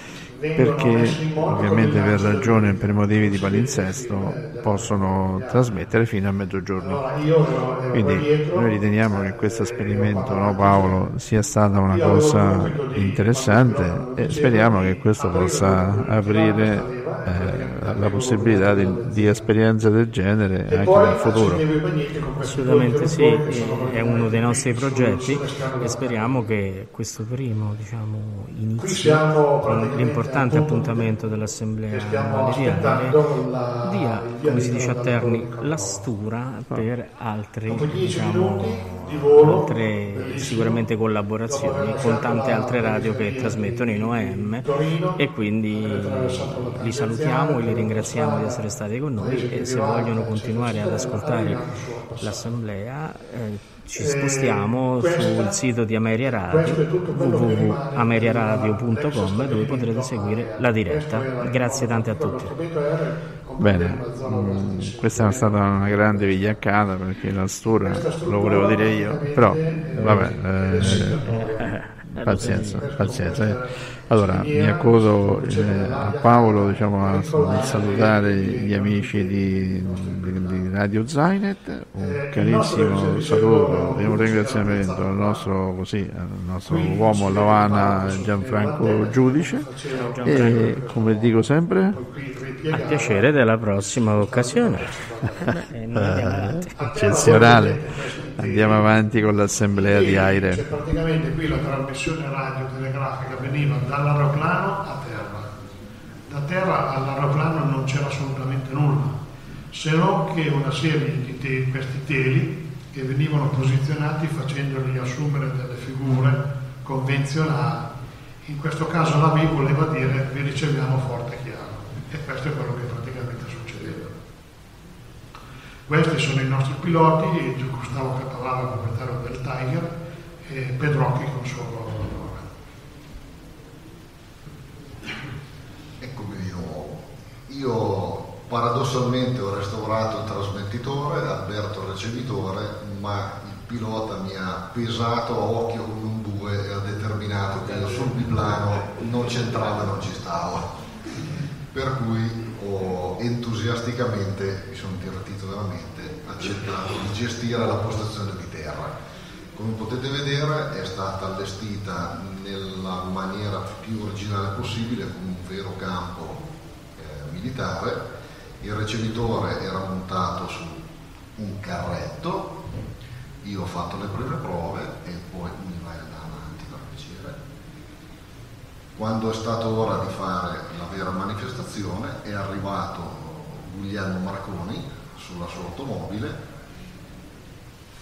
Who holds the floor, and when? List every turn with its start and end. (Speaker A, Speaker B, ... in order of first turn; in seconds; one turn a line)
Speaker A: 0.3-5.8
Speaker B: 0.5-7.1
Speaker A: 6.7-11.1
Speaker B: 7.9-21.6
Speaker A: 11.8-19.5
Speaker A: 20.7-26.4
Speaker C: 22.4-33.2
Speaker A: 28.8-31.1
Speaker A: 31.9-36.0
Speaker C: 33.8-51.6
Speaker A: 37.7-40.9
Speaker A: 41.5-48.6
Speaker A: 49.1-52.5
Speaker C: 52.2-62.5
Speaker A: 53.9-55.6
Speaker A: 56.4-66.7
Speaker B: 63.6-89.7
Speaker A: 67.7-80.7
Speaker C: 70.0-73.1
Speaker C: 77.5-78.1
Speaker A: 82.0-85.5
Speaker A: 86.6-95.5
Speaker C: 89.9-90.8
Speaker B: 90.2-92.0
Speaker C: 92.7-96.7
Speaker B: 95.9-100.7
Speaker A: 96.8-99.1
Speaker A: 99.7-105.5
Speaker A: 106.3-109.2
Speaker A: 109.7-117.9
Speaker A: 118.4-124.2
Speaker A: 125.9-132.5
Speaker D: 136.0-150.7
Speaker A: 147.6-148.3
Speaker D: 151.7-158.9
Speaker D: 159.5-166.4
Speaker D: 166.9-168.0
Speaker D: 168.6-170.8
Speaker D: 171.4-172.5
Speaker D: 173.4-177.4
Speaker D: 178.9-186.4